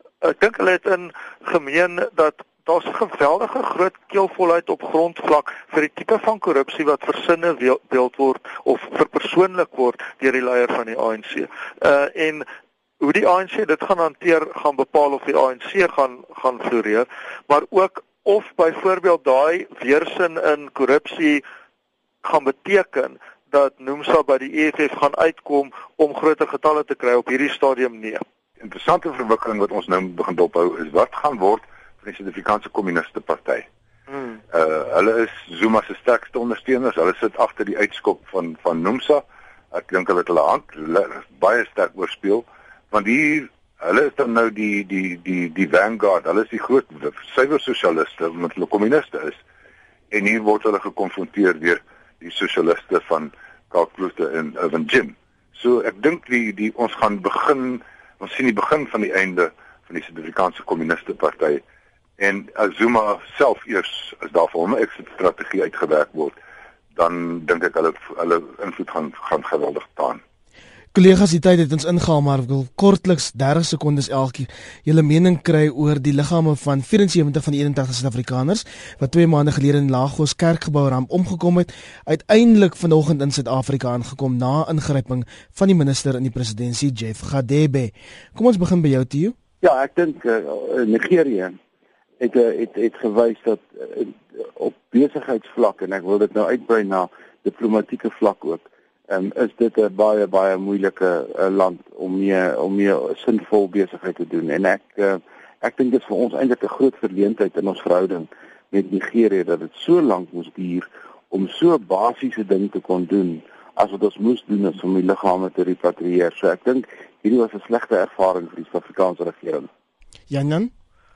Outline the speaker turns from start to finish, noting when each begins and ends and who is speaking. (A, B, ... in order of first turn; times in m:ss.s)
0:00.2-0:12.4 A
0:13.0-0:21.4 A
0:22.2-0:28.2 A
0:28.6-0:33.6 B
0:34.1-0:34.4 A
0:34.5-0:49.4 B
0:50.1-1:01.6 B
1:02.2-1:06.4 B
1:06.9-1:10.2 B
1:10.9-1:29.3 C
1:29.6-1:31.6 D
1:32.2-1:59.7 D
2:00.3-2:00.7 C